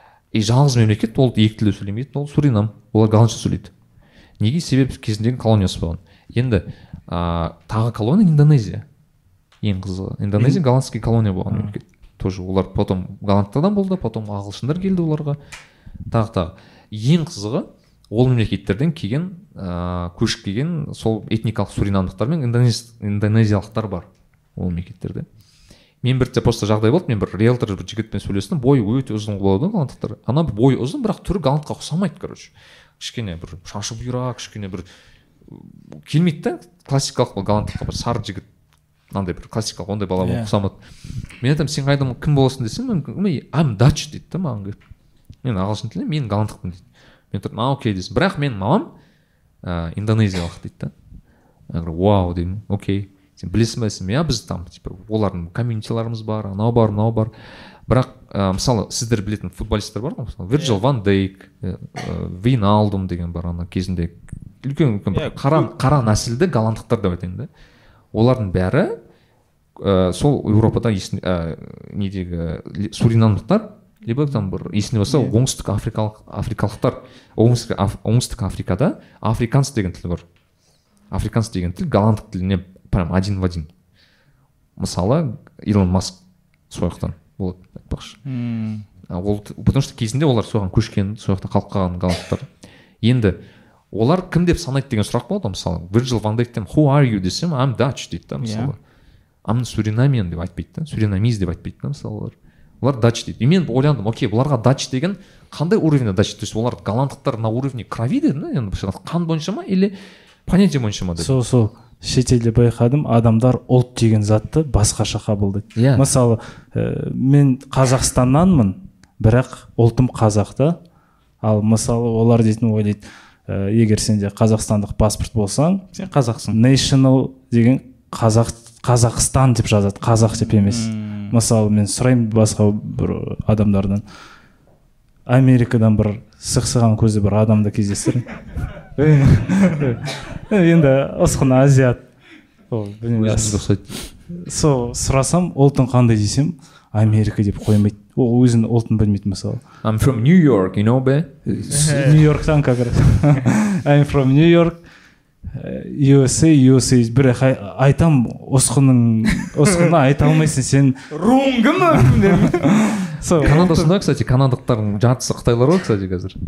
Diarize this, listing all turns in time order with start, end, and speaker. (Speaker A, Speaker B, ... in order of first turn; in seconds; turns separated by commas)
Speaker A: 0.3-3.7, Speaker A: 4.4-8.8, Speaker A: 9.6-15.4, Speaker A: 16.1-25.2, Speaker A: 26.0-34.9, Speaker A: 35.5-38.5, Speaker A: 39.1-40.8, Speaker B: 40.2-40.5, Speaker A: 41.4-44.8, Speaker A: 45.4-48.9, Speaker A: 49.6-50.9, Speaker A: 51.7-57.3, Speaker A: 57.9-67.5, Speaker B: 65.1-65.7, Speaker A: 68.1-68.9, Speaker A: 69.8-80.2, Speaker A: 81.1-83.7, Speaker A: 84.8-86.2, Speaker A: 86.7-88.2, Speaker B: 88.2-88.8, Speaker A: 89.1-92.5, Speaker A: 93.0-93.4, Speaker A: 93.9-98.8, Speaker B: 98.4-98.7, Speaker A: 99.4-109.9, Speaker A: 110.5-111.4, Speaker C: 111.2-120.8, Speaker A: 115.7-116.0, Speaker C: 121.4-125.8, Speaker B: 125.9-126.6, Speaker C: 126.5-134.0, Speaker B: 130.6-131.3, Speaker C: 135.3-138.3, Speaker C: 138.9-142.0, Speaker C: 142.7-143.7, Speaker A: 143.2-143.9, Speaker C: 144.3-149.6, Speaker A: 149.8-152.1, Speaker C: 151.5-154.8, Speaker B: 151.8-152.1, Speaker C: 155.5-161.0, Speaker B: 161.1-163.9, Speaker C: 162.0-162.5, Speaker C: 163.1-163.6, Speaker A: 163.4-166.4